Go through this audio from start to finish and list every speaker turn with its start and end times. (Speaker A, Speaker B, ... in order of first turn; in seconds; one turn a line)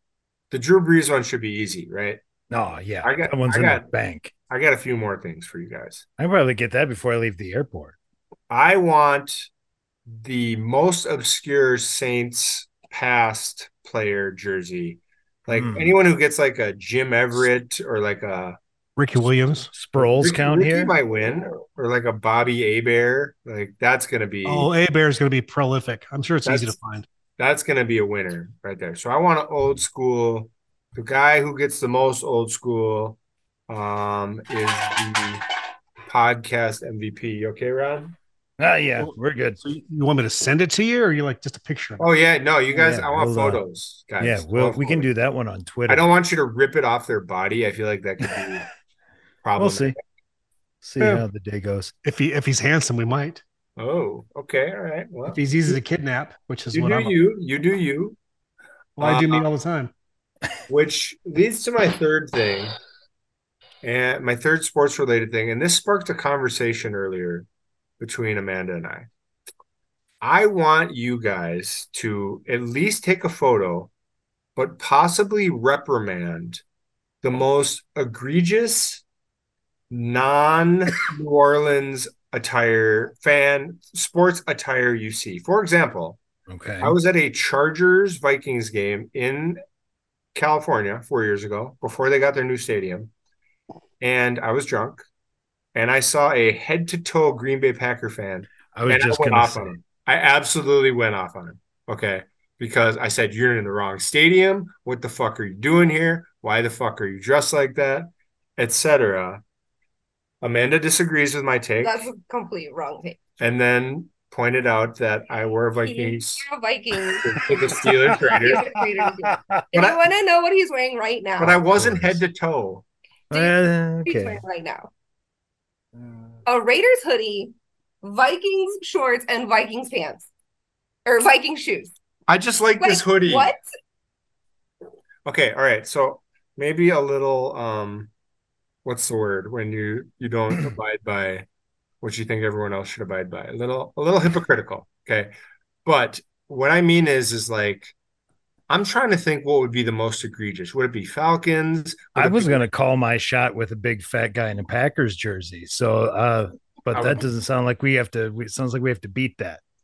Speaker A: 0.5-2.2
Speaker B: 2.5-4.3
Speaker A: 3.0-3.9
Speaker A: 4.5-6.0
Speaker B: 6.2-8.0
Speaker A: 8.5-9.5
Speaker A: 10.1-18.6
Speaker B: 15.5-16.0
Speaker C: 19.0-19.7
Speaker B: 19.7-20.9
Speaker A: 19.9-24.7
Speaker C: 24.4-27.1
Speaker A: 26.4-26.7
Speaker A: 27.4-33.2
Speaker A: 33.7-35.4
Speaker A: 36.1-38.1
Speaker B: 38.6-39.6
Speaker C: 39.0-42.1
Speaker A: 42.0-45.1
Speaker B: 42.7-43.6
Speaker B: 44.2-46.1
Speaker A: 45.9-48.7
Speaker A: 49.4-50.0
Speaker B: 49.5-49.9
Speaker B: 50.8-51.9
Speaker C: 51.0-51.2
Speaker C: 52.0-53.4
Speaker A: 53.8-55.8
Speaker C: 55.3-57.1
Speaker A: 56.7-58.1
Speaker C: 59.0-59.9
Speaker A: 59.0-59.4
Speaker A: 60.7-62.8
Speaker A: 63.8-67.5
Speaker A: 68.0-69.1
Speaker A: 70.2-73.9
Speaker A: 74.5-76.6
Speaker A: 77.2-79.0
Speaker A: 79.9-86.2
Speaker B: 86.5-87.0
Speaker A: 86.8-89.6
Speaker A: 90.3-93.1
Speaker A: 94.0-95.0
Speaker A: 95.7-109.4
Speaker B: 98.7-99.8
Speaker A: 110.4-112.0
Speaker D: 111.8-113.2
Speaker A: 113.4-116.5
Speaker D: 115.8-121.6
Speaker A: 117.2-118.8
Speaker B: 119.0-119.6
Speaker A: 119.7-120.0
Speaker A: 121.4-122.8
Speaker B: 121.7-122.2
Speaker B: 123.3-124.4
Speaker D: 124.0-124.9
Speaker B: 126.0-126.4
Speaker D: 126.5-130.3
Speaker D: 131.1-131.9
Speaker A: 132.3-133.5
Speaker D: 132.8-133.6
Speaker A: 135.2-138.1
Speaker A: 138.8-141.4
Speaker A: 142.0-145.3
Speaker A: 145.8-147.9
Speaker A: 148.7-152.7
Speaker B: 152.2-159.6
Speaker A: 156.9-157.2